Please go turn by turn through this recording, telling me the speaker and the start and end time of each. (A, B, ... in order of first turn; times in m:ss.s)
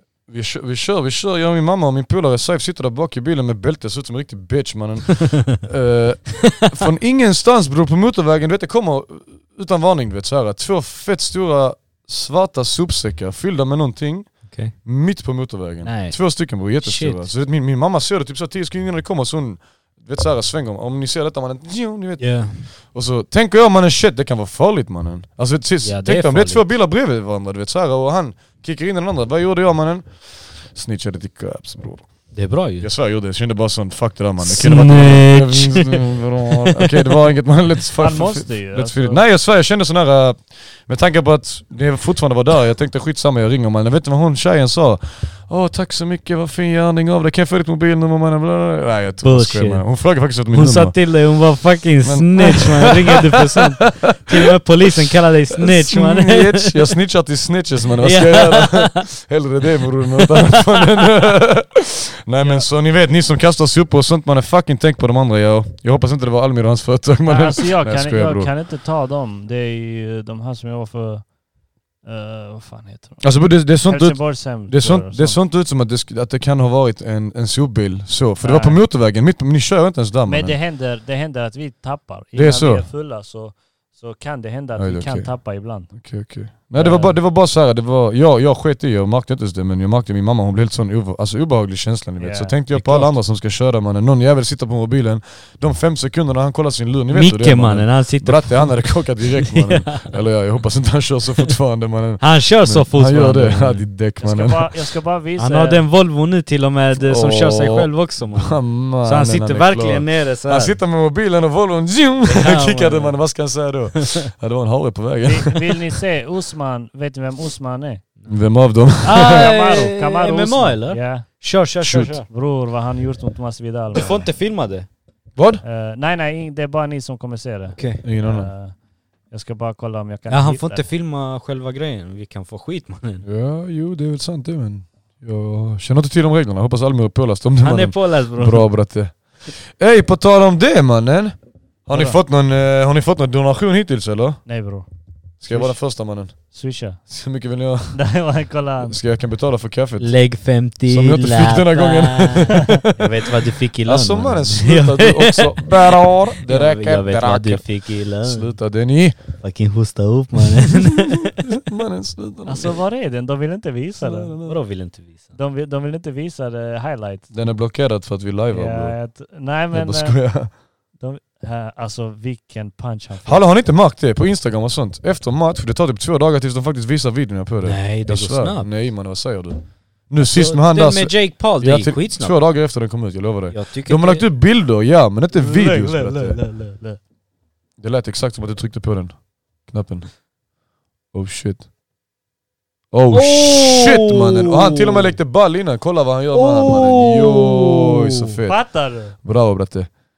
0:00.3-0:51.0 A
0:15.8-0:17.2 B
0:22.2-0:22.7 B
0:25.8-0:26.6 B
0:32.3-0:32.9 B
0:34.4-0:36.2 B
0:38.0-0:39.2 C
0:49.2-0:49.8 B
0:50.5-0:56.9 B
0:52.0-1:08.5 A
0:58.0-0:59.0 B
1:00.2-1:01.1 B
1:02.4-1:02.7 C
1:07.2-1:11.3 C
1:12.0-1:15.4 C
1:13.2-1:20.6 A
1:18.4-1:18.8 C
1:20.2-1:25.9 C
1:22.3-1:22.9 A
1:24.7-1:44.7 A
1:26.7-1:27.2 C
1:32.2-1:33.1 C
1:37.1-1:40.2 B
1:42.2-1:43.8 B
1:44.2-1:45.8 C
1:45.4-1:50.8 B
1:47.0-1:55.8 A
1:52.2-1:53.2 B
1:54.0-1:54.3 B
1:55.2-1:58.0 C
1:58.3-1:59.5 A
1:59.0-2:02.3 B
1:59.0-2:01.2 C
2:01.8-2:02.2 A
2:02.3-2:04.3 C
2:03.9-2:04.9 B
2:05.4-2:05.6 A
2:05.6-2:08.8 C
2:07.7-2:08.0 B
2:08.0-2:08.5 A
2:09.3-2:10.8 C
2:10.3-2:13.2 B
2:13.2-2:24.4 A
2:17.6-2:18.8 B
2:21.9-2:22.2 C
2:24.4-2:24.9 C
2:25.4-2:26.5 A
2:25.4-2:25.8 C
2:26.3-2:27.0 C
2:27.1-2:28.1 A
2:27.9-2:29.0 C
2:28.8-2:30.1 A
2:30.0-2:35.8 B
2:30.9-2:33.3 A
2:33.8-2:39.3 A
2:36.4-2:38.5 B
2:39.4-2:41.4 B
2:41.4-2:42.8 A
2:42.4-2:44.3 C
2:44.0-2:44.6 A
2:44.4-2:45.3 B
2:45.3-2:47.3 C
2:47.3-2:49.0 A
2:48.5-2:53.4 C
2:49.7-2:50.5 A
2:53.2-3:06.4 A
2:57.6-2:58.7 B
3:00.2-3:02.4 B
3:03.5-3:04.3 B
3:05.3-3:07.0 C
3:07.8-3:10.1 A
3:11.1-3:11.7 A
3:12.9-3:19.9 A
3:13.1-3:15.2 B
3:16.3-3:18.3 B
3:18.5-3:19.2 C